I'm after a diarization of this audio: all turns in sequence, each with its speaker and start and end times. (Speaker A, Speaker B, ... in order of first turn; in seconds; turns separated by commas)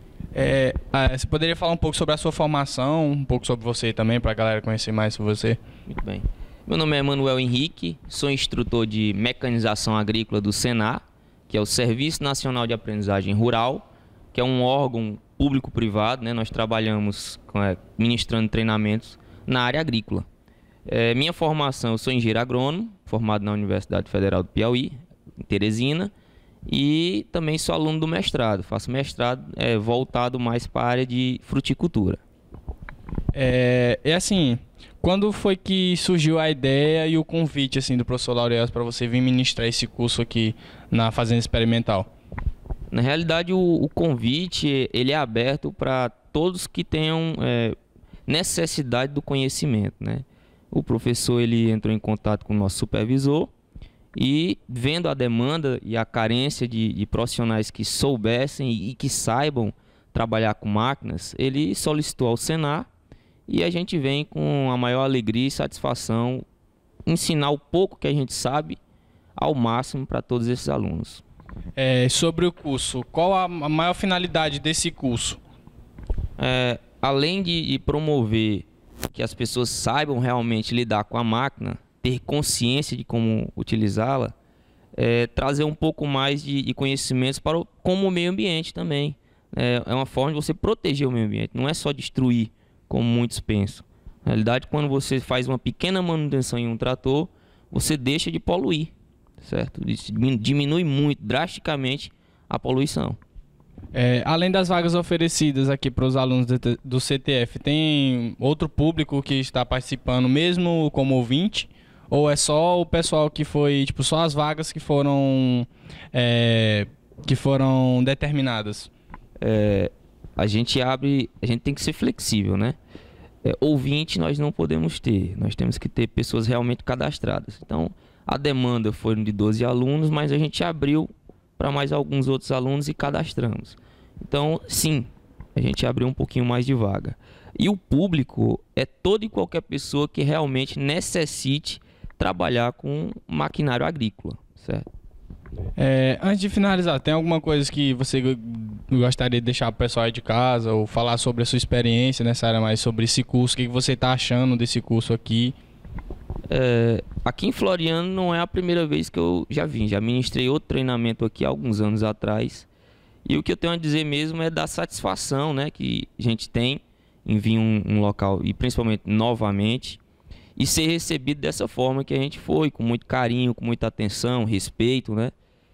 Speaker A: 0.3-5.6, Speaker B: 5.9-20.3, Speaker B: 20.9-26.1, Speaker B: 26.7-32.2, Speaker A: 33.3-42.1, Speaker B: 42.9-47.8, Speaker B: 48.3-53.5, Speaker B: 54.1-62.9, Speaker B: 63.5-66.5, Speaker B: 67.1-68.8, Speaker B: 69.4-71.2, Speaker A: 71.8-75.4, Speaker B: 76.4-84.3, Speaker B: 85.0-103.2, Speaker A: 103.9-118.9, Speaker B: 119.4-122.8, Speaker B: 123.4-144.9, Speaker A: 145.8-155.6, Speaker B: 156.5-162.7, Speaker B: 163.2-170.0, Speaker B: 170.6-175.3